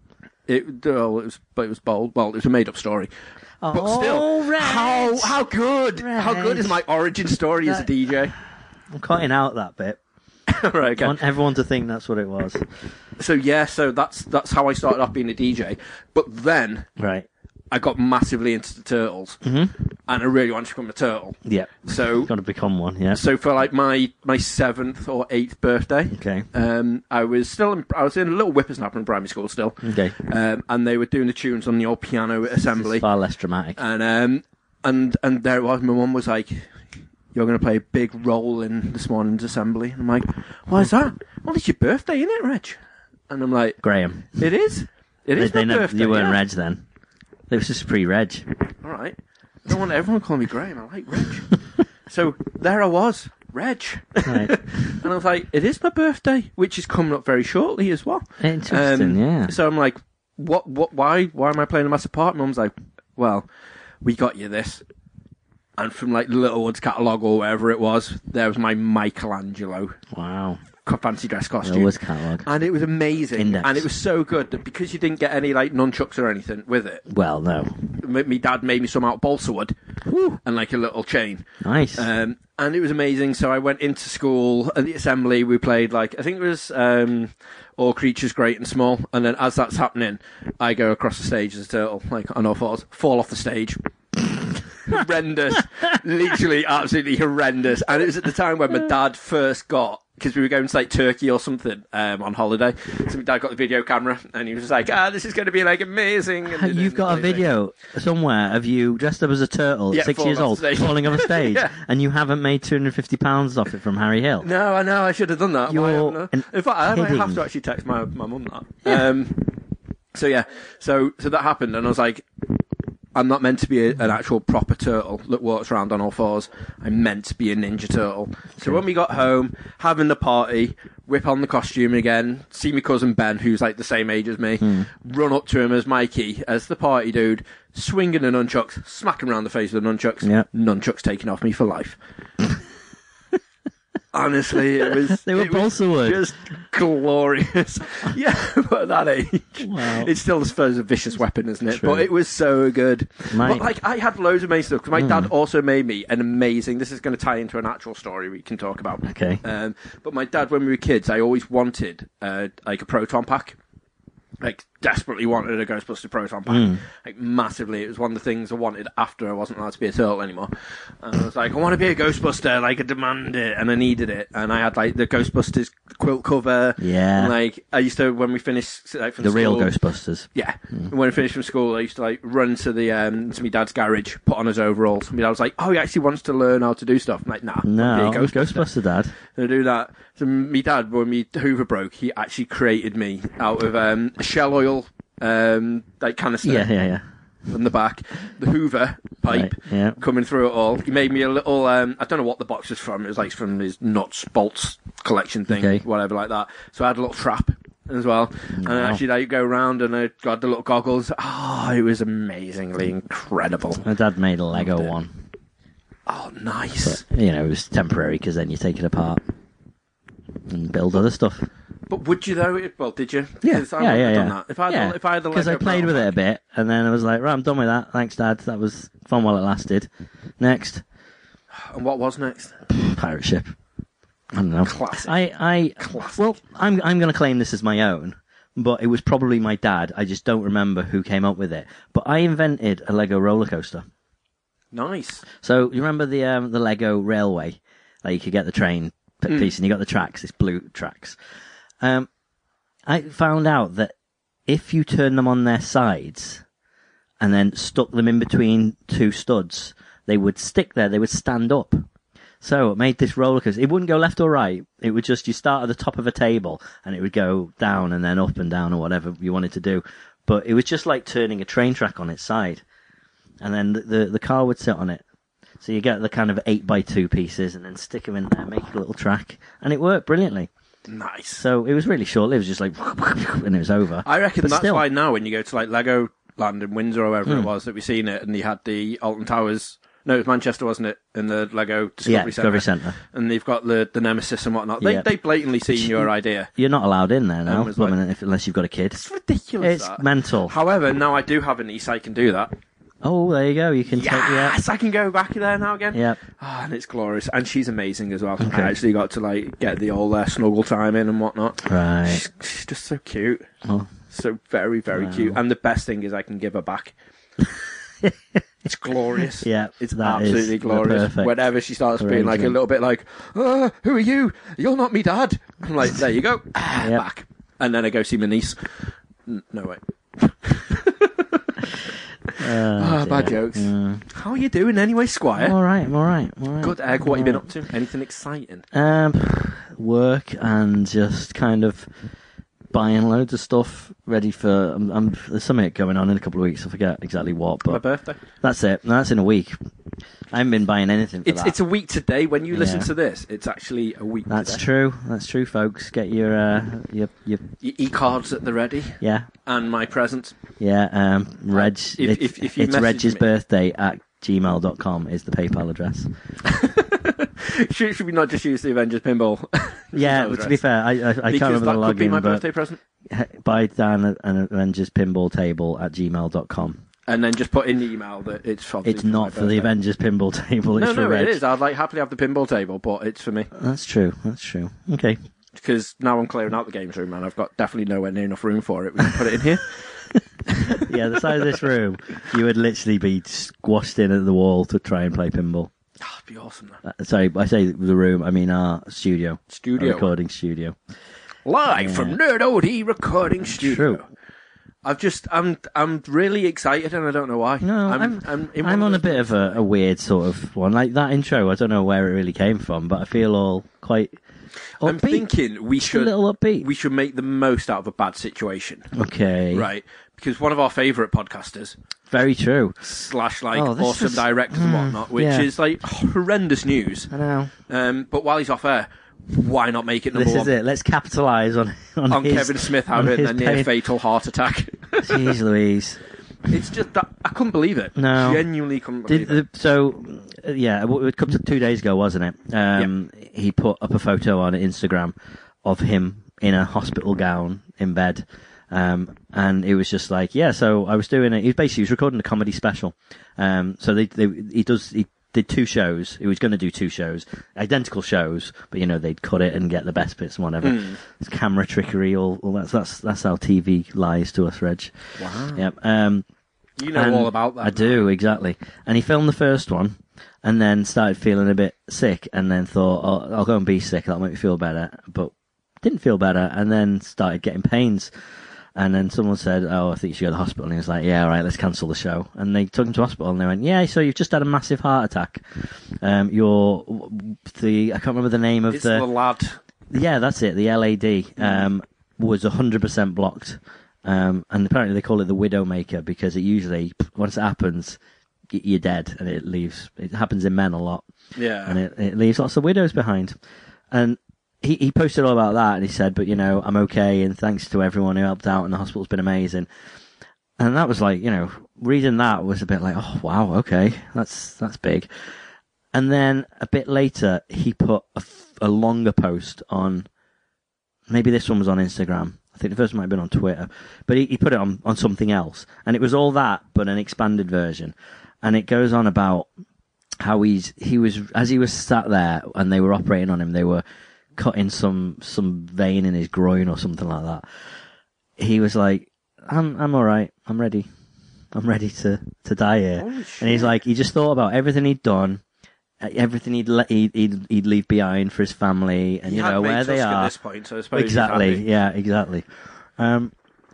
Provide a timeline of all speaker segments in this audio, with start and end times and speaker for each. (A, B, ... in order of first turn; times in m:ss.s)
0:00.5-0:03.1 A
0:03.6-0:05.4 B
0:03.7-0:08.3 A
0:06.0-0:06.8 B
0:08.9-0:10.0 B
0:10.5-0:11.2 A
0:11.0-0:12.6 B
0:13.2-0:16.9 A
0:17.0-0:17.3 B
0:17.7-0:19.4 A
0:19.4-0:19.7 B
0:20.1-0:22.3 A
0:21.4-0:23.2 B
0:23.1-0:33.0 A
0:26.1-0:26.5 B
0:29.8-0:30.1 B
0:32.7-0:33.8 B
0:33.8-0:36.7 A
0:37.3-0:42.8 A
0:43.3-0:43.8 A
0:43.8-0:44.3 B
0:44.4-0:46.4 A
0:45.4-0:46.8 B
0:47.5-0:48.4 B
0:48.8-0:51.5 A
0:52.1-1:03.5 A
0:54.2-0:54.5 B
0:58.4-0:59.5 B
1:04.0-1:04.8 A
1:05.8-1:10.0 A
1:10.1-1:10.6 B
1:10.8-1:11.9 A
1:11.6-1:12.4 B
1:12.4-1:17.0 A
1:13.4-1:13.9 B
1:17.1-1:17.8 B
1:17.9-1:19.7 A
1:20.1-1:20.4 B
1:20.4-1:33.8 A
1:21.6-1:22.1 B
1:34.8-1:47.5 A
1:46.4-1:54.5 B
1:49.9-1:51.7 A
1:54.4-1:59.6 A
1:55.7-1:57.4 B
2:00.1-2:02.3 A
2:03.1-2:22.0 A
2:14.6-2:14.9 B
2:24.1-2:43.6 A
2:24.8-2:26.2 B
2:29.6-2:30.1 B
2:31.7-2:32.0 B
2:33.3-2:33.6 B
2:35.0-2:35.3 B
2:39.0-2:39.4 B
2:44.4-2:59.7 A
2:46.5-2:46.8 B
2:56.8-2:57.3 B
2:59.2-3:00.9 B
3:00.3-3:08.7 A
3:07.6-3:09.1 B
3:09.3-3:16.7 A
3:16.4-3:17.0 B
3:17.5-3:33.8 A
3:19.3-3:20.0 B
3:25.6-3:25.8 B
3:28.6-3:29.0 B
3:33.8-3:35.1 B
3:34.5-3:34.9 A
3:36.1-3:37.0 A
3:36.8-3:39.2 B
3:40.5-3:41.5 B
3:41.9-3:46.1 A
3:43.4-3:49.9 B
3:50.4-3:50.8 B
3:51.5-3:52.6 A
3:52.7-3:53.5 B
3:54.3-4:03.9 B
3:54.6-3:55.1 A
3:55.8-3:56.2 A
4:04.7-4:05.2 A
4:05.4-4:11.2 B
4:11.8-4:12.1 B
4:12.8-4:13.9 B
4:14.5-4:16.4 B
4:17.2-4:21.8 B
4:22.4-4:32.6 B
4:33.4-4:35.0 B
4:35.6-4:40.5 B
4:40.9-4:41.4 A
4:41.4-4:44.8 B
4:44.0-4:56.5 A
4:52.0-4:53.0 B
4:54.8-4:55.1 B
4:55.7-4:59.0 B
4:57.4-4:58.0 A
4:58.9-5:02.5 A
4:59.6-5:00.5 B
5:03.0-5:04.6 B
5:03.9-5:13.5 A
5:05.9-5:06.2 B
5:08.4-5:08.7 B
5:11.6-5:12.2 B
5:14.1-5:16.9 A
5:14.9-5:15.4 B
5:18.6-5:28.7 A
5:19.2-5:21.3 B
5:22.0-5:22.6 B
5:29.3-5:31.5 A
5:32.3-5:35.6 A
5:32.4-5:34.0 B
5:35.4-5:37.4 B
5:36.6-5:38.6 A
5:38.7-5:41.9 B
5:42.7-5:47.8 B
5:47.7-5:48.2 A
5:48.4-5:49.5 B
5:50.3-5:51.5 B
5:51.2-5:54.6 A
5:52.5-5:52.9 B
5:54.3-5:57.4 B
5:57.6-6:00.4 A
5:59.0-5:59.3 B
6:00.6-6:06.1 B
6:01.5-6:03.2 A
6:06.4-6:10.6 A
6:09.9-6:12.4 B
6:11.3-6:12.8 A
6:13.1-6:16.8 B
6:17.1-6:19.7 A
6:18.8-6:21.4 B
6:20.7-6:23.5 A
6:23.5-6:25.2 B
6:25.6-6:29.8 A
6:30.5-6:31.6 A
6:30.8-6:35.7 B
6:36.0-6:36.8 A
6:36.8-6:40.8 B
6:39.5-6:40.1 A
6:41.4-6:44.0 A
6:41.8-6:42.2 B
6:43.5-6:44.0 B
6:44.8-6:49.6 A
6:47.6-6:54.2 B
6:54.8-6:55.3 B
6:54.8-6:58.9 A
6:55.8-6:56.7 B
6:58.9-6:59.7 B
6:59.5-7:01.8 A
7:02.1-7:02.8 B
7:02.8-7:07.1 A
7:03.5-7:05.5 B
7:07.1-7:07.5 B
7:07.7-7:10.5 A
7:10.1-7:13.7 B
7:12.1-7:15.3 A
7:15.0-7:16.0 B
7:16.5-7:19.4 A
7:18.0-7:18.4 B
7:19.1-7:44.9 B
7:40.6-7:41.0 A
7:45.2-7:45.7 A
7:45.5-7:46.2 B
7:46.8-7:48.1 A
7:46.9-7:58.1 B
7:58.7-8:09.0 B
8:08.7-8:09.6 A
8:09.9-8:18.0 B
8:11.4-8:11.6 A
8:18.5-8:21.1 B
8:21.3-8:21.8 A
8:21.6-8:23.4 B
8:23.9-8:29.7 B
8:30.6-8:35.1 B
8:35.9-8:40.1 B
8:41.1-8:49.5 B
8:50.2-8:53.8 B
8:54.4-8:57.4 B
8:58.4-9:00.9 B
9:01.5-9:05.4 B
9:03.0-9:03.7 A
9:06.0-9:10.3 B
9:09.2-9:11.6 A
9:10.9-9:13.3 B